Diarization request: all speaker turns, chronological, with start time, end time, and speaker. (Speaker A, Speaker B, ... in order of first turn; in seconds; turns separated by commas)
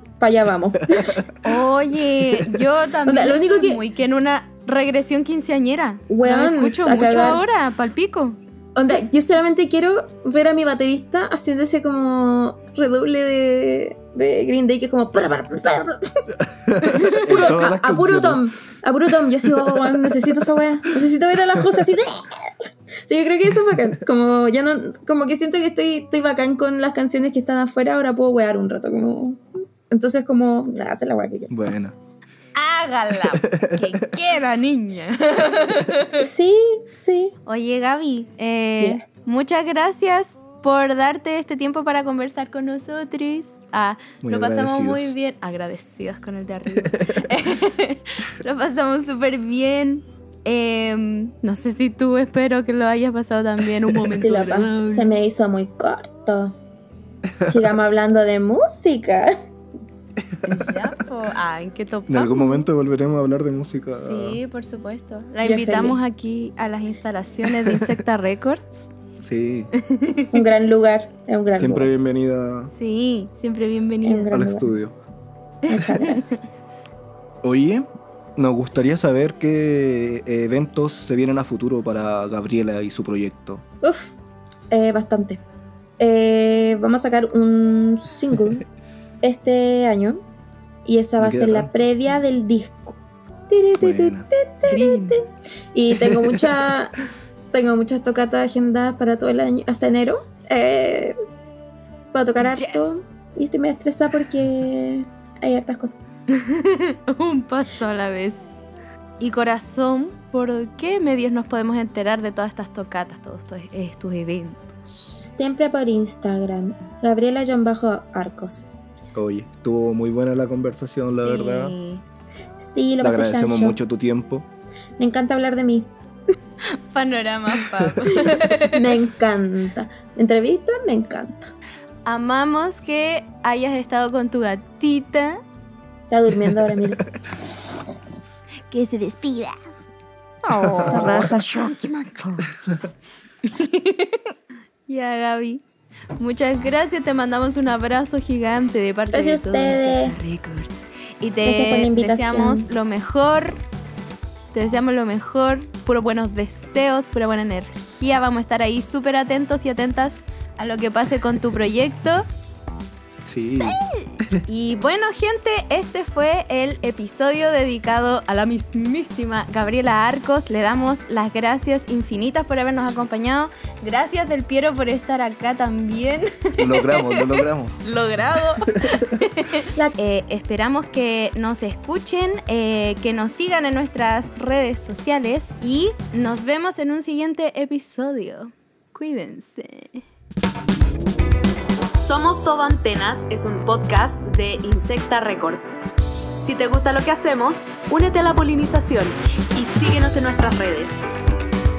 Speaker A: 0.2-1.2, Speaker B: 1.4-8.4, Speaker A: 3.0-3.8, Speaker A: 6.1-7.4, Speaker A: 8.8-16.2, Speaker C: 16.5-18.4, Speaker A: 16.8-31.5, Speaker C: 19.5-20.2, Speaker C: 31.5-31.9, Speaker B: 32.5-36.2, Speaker C: 33.3-34.0, Speaker A: 36.2-37.3, Speaker B: 37.5-55.1, Speaker C: 44.2-45.1, Speaker A: 54.0-56.6, Speaker A: 57.5-59.4, Speaker B: 60.5-62.6, Speaker C: 62.1-64.4, Speaker B: 63.9-68.9, Speaker A: 65.4-66.0, Speaker C: 69.2-69.7, Speaker B: 69.8-70.4, Speaker A: 70.3-71.9, Speaker C: 71.6-72.7, Speaker B: 72.8-74.3, Speaker A: 74.0-74.7, Speaker C: 74.3-75.0, Speaker B: 75.7-76.4, Speaker A: 75.7-76.3, Speaker C: 77.4-83.6, Speaker A: 83.8-84.2, Speaker A: 84.7-85.4, Speaker A: 86.0-88.6, Speaker A: 89.2-90.2, Speaker A: 90.8-97.0, Speaker C: 91.2-91.7, Speaker C: 93.8-94.3, Speaker B: 94.6-95.2, Speaker C: 96.1-96.4, Speaker A: 97.5-101.2, Speaker A: 102.1-105.9, Speaker B: 102.4-102.9, Speaker B: 106.3-108.4, Speaker B: 109.2-115.2, Speaker A: 115.2-118.7, Speaker C: 119.1-121.8, Speaker B: 121.1-122.0, Speaker A: 122.6-123.8, Speaker C: 123.0-124.5, Speaker A: 125.0-125.9, Speaker B: 126.7-128.9, Speaker A: 128.5-131.5, Speaker B: 132.1-135.4, Speaker A: 136.1-137.0, Speaker B: 138.7-139.6, Speaker B: 140.4-142.5, Speaker A: 140.9-141.4, Speaker C: 140.9-141.7, Speaker B: 143.4-144.3, Speaker B: 144.9-145.6, Speaker B: 146.2-153.6, Speaker A: 149.1-150.2, Speaker A: 151.4-152.7, Speaker B: 154.5-162.3, Speaker C: 163.2-164.4, Speaker B: 163.4-190.0, Speaker C: 176.6-177.8, Speaker C: 178.7-179.2, Speaker B: 192.0-195.7, Speaker B: 196.4-201.1